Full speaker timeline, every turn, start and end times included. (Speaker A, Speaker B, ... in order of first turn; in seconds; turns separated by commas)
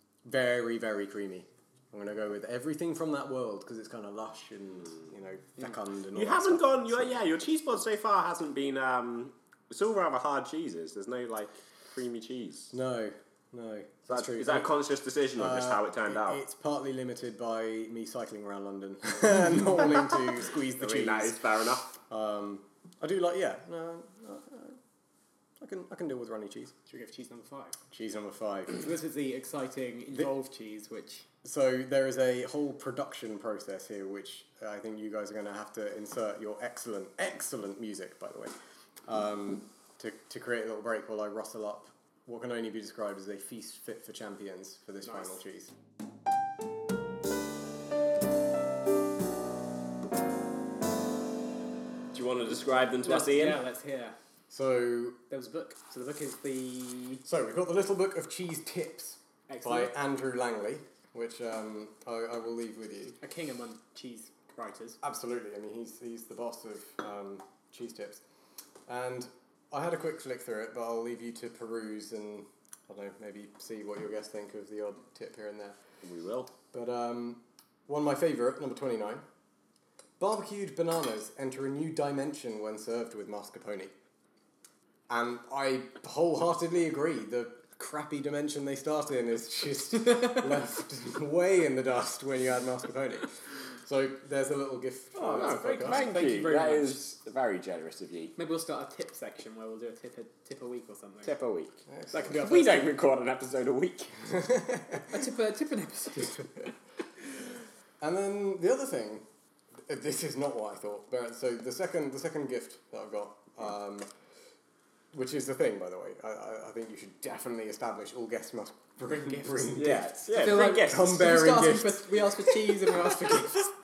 Speaker A: 0.2-7.2, Speaker B: 6.1-12.7, Speaker A: 12.7-14.7, Speaker B: 14.1-16.4, Speaker A: 15.4-21.4, Speaker B: 20.8-21.9, Speaker A: 22.1-24.8, Speaker A: 25.6-26.7, Speaker C: 26.9-27.8, Speaker A: 27.9-28.8, Speaker C: 28.7-31.2, Speaker A: 31.4-38.5, Speaker A: 39.0-45.7, Speaker B: 52.1-53.6, Speaker C: 53.0-54.1, Speaker A: 54.5-55.2, Speaker C: 55.3-57.2, Speaker A: 57.2-63.2, Speaker C: 59.5-59.9, Speaker C: 63.2-65.0, Speaker A: 65.0-68.2, Speaker A: 68.9-75.8, Speaker B: 76.0-76.5, Speaker A: 76.7-79.2, Speaker A: 80.2-83.9, Speaker A: 85.1-96.1, Speaker C: 95.2-97.0, Speaker B: 95.2-98.3, Speaker C: 98.4-101.3, Speaker B: 101.2-101.7, Speaker A: 101.9-102.5, Speaker C: 102.1-102.9, Speaker B: 102.3-104.3, Speaker A: 104.4-105.0, Speaker C: 105.1-106.7, Speaker A: 108.0-109.2, Speaker A: 109.9-114.1, Speaker A: 115.1-122.1, Speaker B: 119.7-121.2, Speaker C: 120.3-123.7